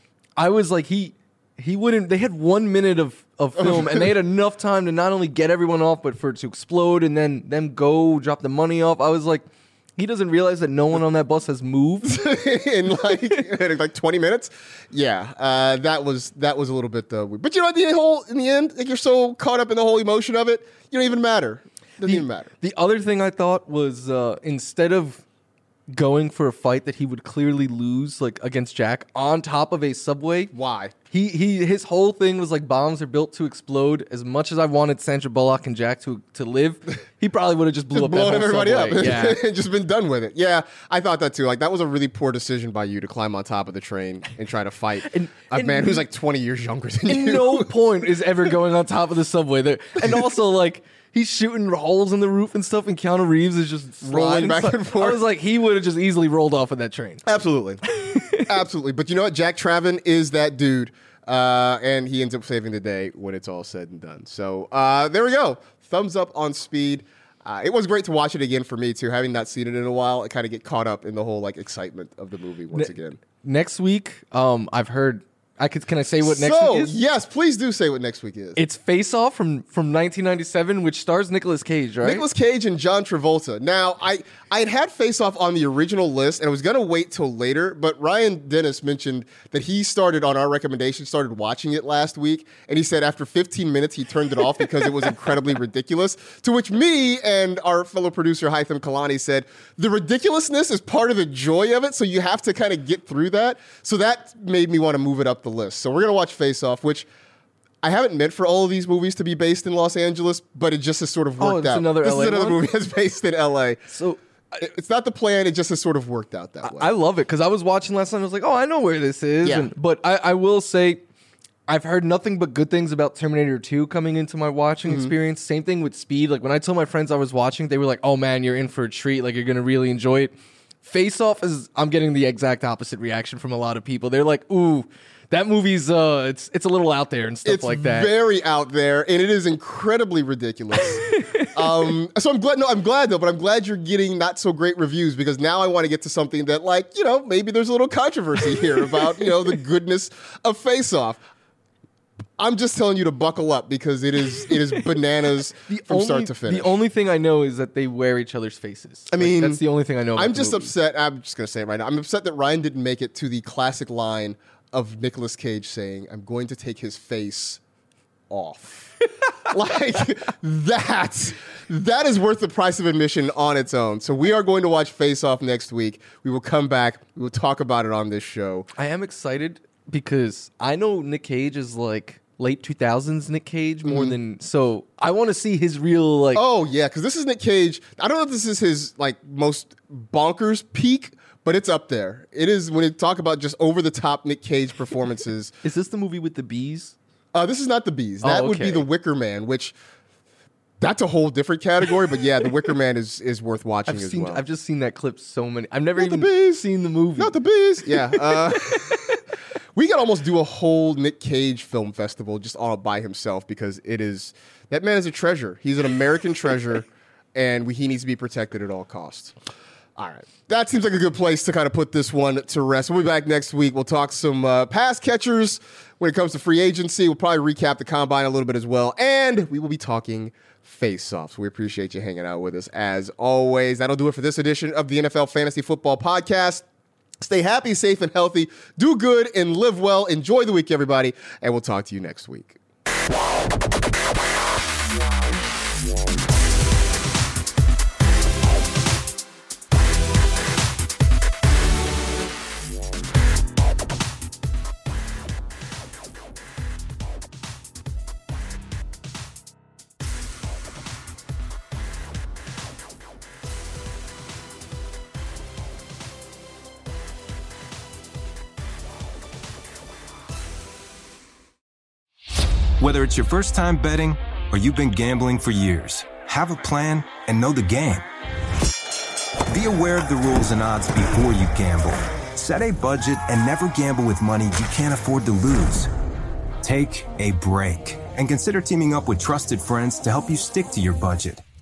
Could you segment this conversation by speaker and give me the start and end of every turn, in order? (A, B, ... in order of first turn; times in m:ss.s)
0:00.4-0:12.1 A
0:03.6-0:04.0 B
0:12.0-0:22.5 B
0:22.0-0:25.2 A
0:25.9-0:30.5 A
0:30.5-0:30.9 B
0:31.1-0:39.4 A
0:37.9-0:47.7 B
0:45.1-0:46.0 A
0:47.1-0:57.2 A
0:54.0-0:55.2 B
0:57.2-0:57.8 B
0:57.9-0:58.4 A
0:58.5-1:13.2 B
1:12.7-1:16.9 A
1:16.2-1:18.6 B
1:18.6-1:22.2 A
1:22.0-1:47.1 B
1:47.8-1:53.8 B
1:51.4-1:52.6 A
1:53.9-1:54.6 A
1:54.6-1:56.9 B
1:56.6-2:01.0 A
1:59.4-1:59.7 B
2:01.7-2:18.1 A
2:04.8-2:05.1 B
2:17.4-2:31.2 B
2:21.0-2:21.5 A
2:32.4-2:36.8 B
2:35.7-2:40.7 A
2:39.1-2:39.6 B
2:40.2-2:47.6 B
2:48.3-2:58.7 B
2:58.8-3:06.4 A
3:03.8-3:04.2 B
3:06.3-3:15.6 B
3:15.6-3:16.9 A
3:17.3-3:19.7 B
3:18.2-3:18.9 A
3:20.8-3:24.4 B
3:23.9-3:27.4 A
3:26.0-3:26.6 B
3:27.2-3:29.2 B
3:28.2-3:29.2 A
3:29.7-3:39.3 B
3:40.0-3:56.6 B
3:57.2-4:02.6 B
4:32.8-4:38.0 C
4:39.5-4:45.9 C
4:46.6-4:51.4 C